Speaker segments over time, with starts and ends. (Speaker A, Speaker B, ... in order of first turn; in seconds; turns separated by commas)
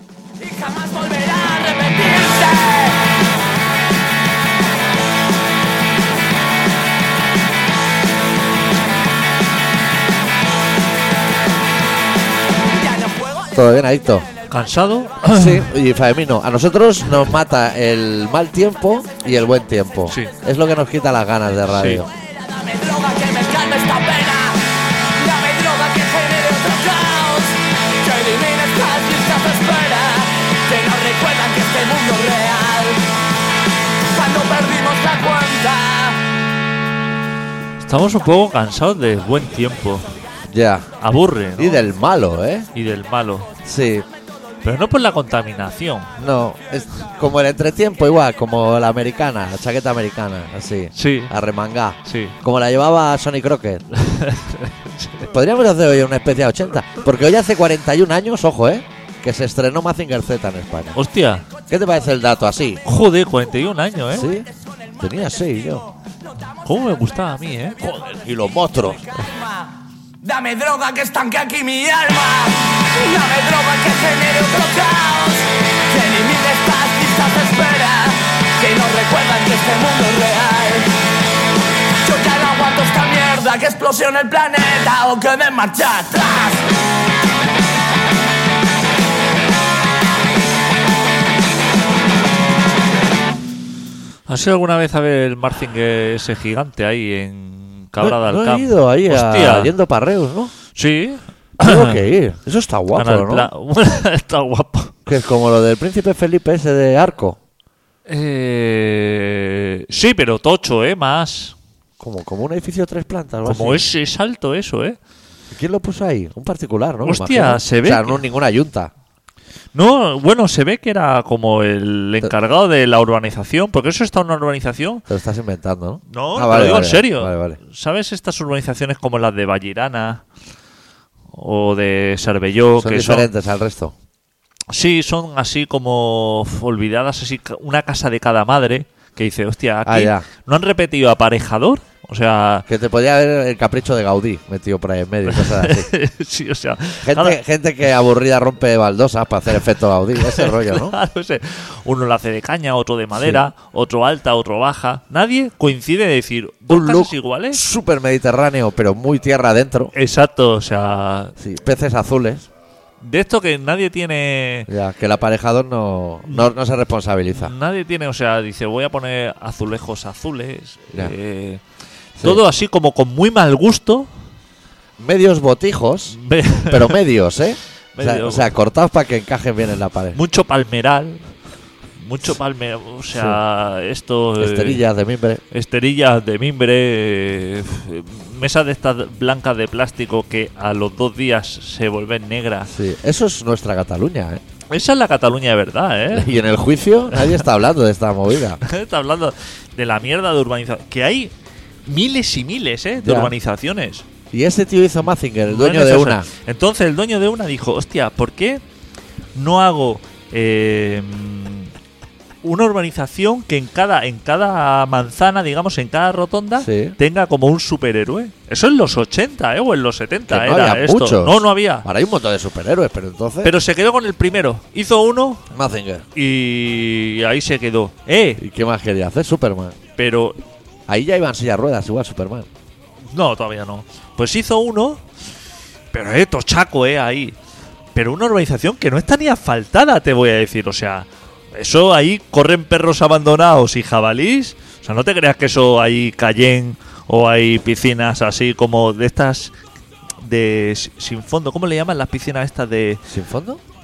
Speaker A: 0.4-3.2, Speaker A: 12.7-13.5, Speaker B: 13.5-14.3, Speaker C: 14.5-15.7, Speaker B: 15.2-22.1, Speaker C: 20.1-20.3, Speaker C: 21.7-22.0, Speaker A: 22.2-33.2, Speaker A: 34.0-36.2, Speaker C: 37.8-40.1, Speaker B: 40.5-40.9, Speaker C: 41.0-41.9, Speaker B: 41.6-42.7, Speaker C: 42.7-43.5, Speaker B: 43.6-44.1, Speaker C: 44.6-46.1, Speaker B: 46.2-53.9, Speaker C: 51.0-51.3, Speaker C: 52.0-52.4, Speaker C: 53.9-55.3, Speaker B: 55.3-61.0, Speaker C: 61.0-61.5, Speaker B: 61.7-62.8, Speaker C: 62.9-64.3, Speaker B: 64.1-65.9, Speaker C: 66.6-67.8, Speaker B: 67.8-69.1, Speaker A: 69.2-69.7, Speaker A: 70.2-81.0, Speaker A: 82.0-86.7, Speaker C: 94.3-99.7, Speaker B: 98.0-100.5, Speaker C: 100.7-102.0, Speaker B: 101.6-103.5, Speaker C: 102.9-105.0, Speaker B: 105.1-107.4, Speaker C: 108.1-111.6, Speaker B: 112.0-113.8, Speaker C: 113.5-115.0, Speaker B: 115.5-118.9, Speaker C: 117.0-118.2, Speaker C: 119.7-125.0, Speaker B: 125.1-127.6, Speaker C: 126.1-130.2, Speaker C: 131.3-133.3, Speaker B: 132.8-133.9, Speaker C: 134.7-142.7, Speaker B: 139.8-140.3, Speaker B: 142.7-145.9, Speaker C: 145.3-147.4, Speaker B: 147.0-151.0, Speaker C: 150.2-157.6, Speaker B: 156.7-159.9, Speaker C: 159.9-161.3, Speaker B: 161.4-162.5, Speaker C: 163.0-164.7, Speaker B: 164.7-167.5, Speaker C: 167.3-171.6, Speaker C: 172.2-174.1, Speaker B: 175.0-176.2, Speaker C: 176.1-177.0, Speaker B: 176.7-180.2, Speaker C: 178.0-178.5, Speaker C: 180.1-181.3, Speaker C: 182.0-184.8, Speaker B: 184.4-185.4, Speaker C: 185.5-192.7, Speaker B: 192.7-194.4, Speaker C: 194.7-196.3, Speaker B: 196.1-198.6, Speaker C: 197.1-197.4, Speaker C: 198.6-201.3, Speaker C: 201.9-204.1, Speaker B: 203.0-203.3, Speaker B: 204.3-206.3, Speaker C: 205.5-208.6, Speaker C: 209.3-211.7, Speaker C: 212.4-221.9, Speaker B: 216.6-217.0, Speaker B: 220.3-223.5, Speaker C: 223.4-225.4, Speaker B: 225.5-226.1, Speaker C: 226.2-228.4, Speaker B: 228.4-229.8, Speaker C: 230.0-230.4, Speaker B: 230.9-232.5, Speaker C: 233.1-235.0, Speaker C: 235.9-237.4, Speaker C: 237.9-249.6, Speaker C: 250.2-253.0, Speaker B: 253.1-253.6